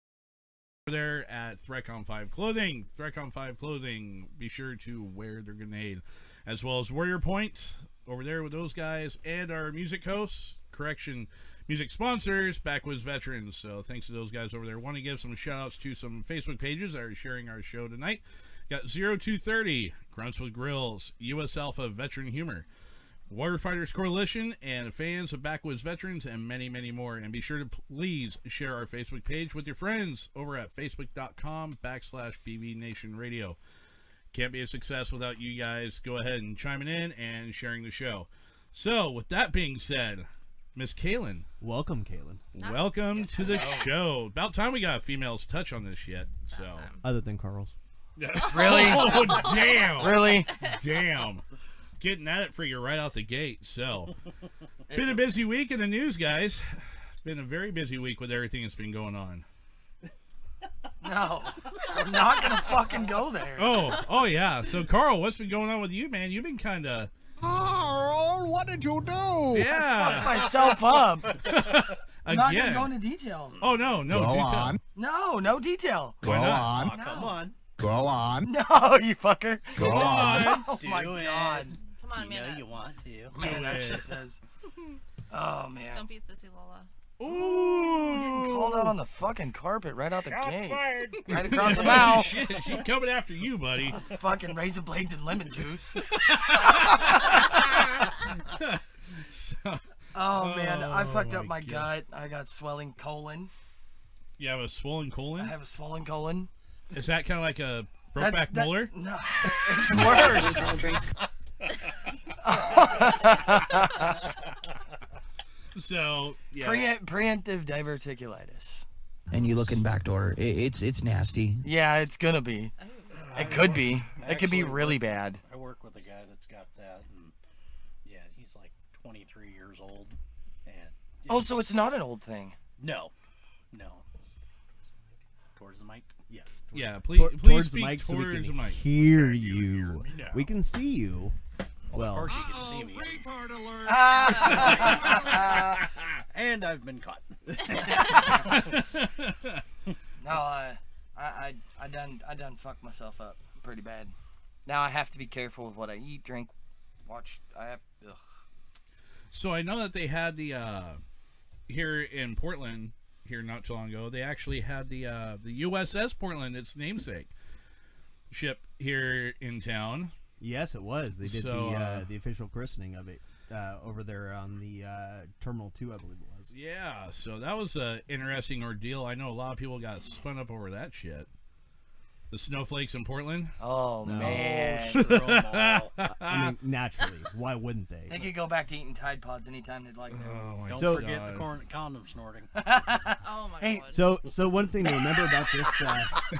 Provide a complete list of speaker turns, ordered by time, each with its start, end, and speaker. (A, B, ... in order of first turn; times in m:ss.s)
0:00.9-0:22.6 A
0:23.3-0:33.6 A
0:34.3-0:41.4 A
0:41.6-0:42.4 B
0:42.6-0:46.9 A
0:42.6-0:43.9 C
0:46.5-0:47.0 C
0:47.0-0:47.7 B
0:48.2-0:51.4 A
0:48.5-0:49.8 C
0:48.5-0:49.4 D
0:50.0-0:50.5 D
0:52.0-0:54.1 A
0:54.9-0:55.3 D
0:54.9-0:59.4 A
1:01.0-1:03.8 D
1:03.6-1:07.1 A
1:07.4-1:09.8 E
1:09.5-1:10.5 A
1:10.0-1:11.4 D
1:11.4-1:12.9 A
1:12.2-1:13.6 D
1:13.6-1:14.8 A
1:14.0-1:14.8 E
1:14.9-1:17.4 D
1:16.2-1:17.0 E
1:16.2-1:16.7 A
1:16.6-1:17.5 F
1:17.8-1:18.5 E
1:18.4-1:21.8 D
1:19.7-1:20.7 A
1:19.7-1:20.7 E
1:20.7-1:23.4 F
1:21.8-1:22.7 C
1:23.3-1:24.1 A
1:23.3-1:24.4 D
1:25.3-1:26.1 D
1:25.9-1:26.9 C
1:27.2-1:28.9 A
1:27.3-1:32.4 D
1:31.0-1:31.3 C
1:31.3-1:34.0 A
1:34.0-1:36.0 D
1:36.2-1:41.9 A
1:36.5-1:37.1 D
1:40.1-1:43.5 D
1:44.4-1:45.5 A
1:45.4-1:46.5 D
1:46.9-1:48.9 A
1:48.2-1:50.8 D
1:52.4-1:54.2 D
1:55.7-1:56.9 A
1:56.6-1:58.8 D
1:59.3-2:01.6 G
2:01.6-2:02.7 D
2:02.8-2:03.2 C
2:03.2-2:07.3 F
2:03.4-2:05.4 D
2:08.0-2:11.9 F
2:11.3-2:12.6 D
2:12.8-2:13.1 F
2:13.7-2:14.2 F
2:15.5-2:16.1 F
2:16.3-2:21.4 B
2:16.7-2:18.8 A
2:19.0-2:20.5 F
2:21.9-2:23.3 F
2:21.9-2:22.3 B
2:22.4-2:25.5 E
2:23.8-2:25.8 D
2:24.6-2:24.9 F
2:25.8-2:26.2 A
2:26.3-2:28.8 F
2:28.3-2:29.6 A
2:30.2-2:34.1 D
2:34.6-2:36.5 D
2:37.0-2:38.2 D
2:39.3-2:41.0 A
2:41.7-2:47.3 A
2:48.3-2:50.1 A
2:50.4-2:56.5 B
2:51.2-2:52.1 A
2:56.5-3:01.3 A
3:02.3-3:03.5 A
3:03.6-3:05.1 D
3:04.0-3:04.8 B
3:04.1-3:05.9 F
3:04.9-3:06.5 A
3:06.1-3:08.3 B
3:08.1-3:10.4 D
3:10.1-3:11.4 A
3:10.7-3:12.5 F
3:10.7-3:11.1 B
3:12.5-3:13.9 D
3:13.2-3:14.2 C
3:13.9-3:16.2 B